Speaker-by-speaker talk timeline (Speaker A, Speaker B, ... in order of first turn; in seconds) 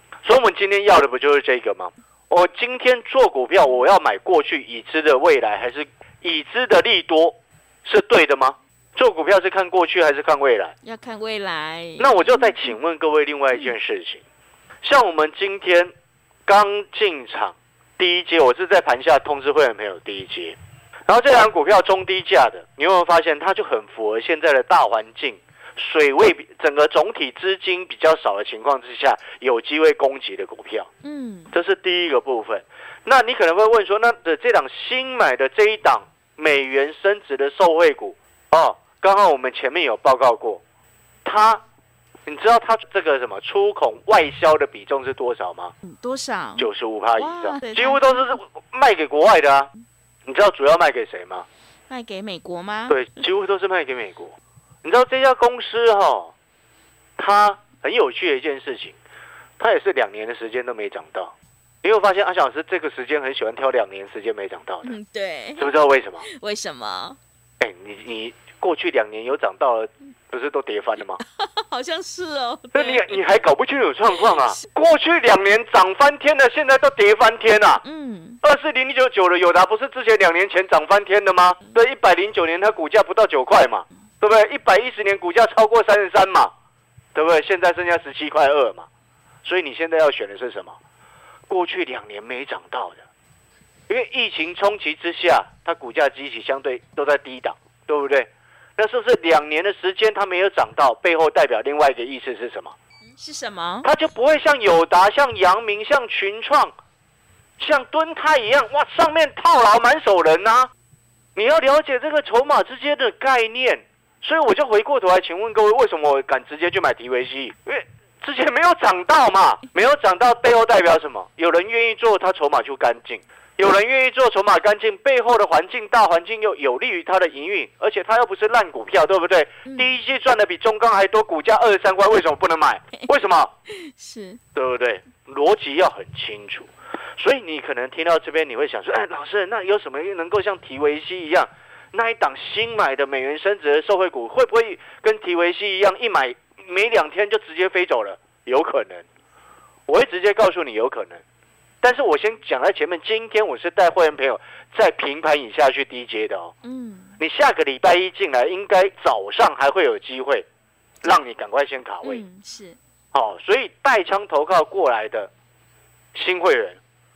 Speaker A: 0.2-10.7, 12.0-14.2, 14.8-15.9, 16.5-20.6, 21.1-30.9, 31.5-40.6, 41.2-41.6, 42.2-45.7, 46.6-49.7, 50.3-51.5, 52.9-56.3, 57.2-58.9, 59.6-64.9, 65.6-66.2, 67.6-71.2, 72.7-77.8, 78.4-86.5, 87.1-88.9, 89.4-90.8, 91.5-93.0, 93.9-102.7, 103.8-106.7, 107.6-110.7, 111.3-133.5, 134.5-149.1, 149.9-151.2, 151.8-156.5, 157.2-160.4, 161.0-162.2, 163.1-165.3, 166.1-166.8
Speaker B: 10.8-12.6, 31.0-31.5, 45.8-48.2, 51.9-53.0, 64.8-65.7, 66.2-67.2, 71.2-73.3, 74.1-74.7, 77.8-78.4, 103.1-103.9, 129.6-129.9, 133.7-134.4, 156.6-157.2, 162.0-162.8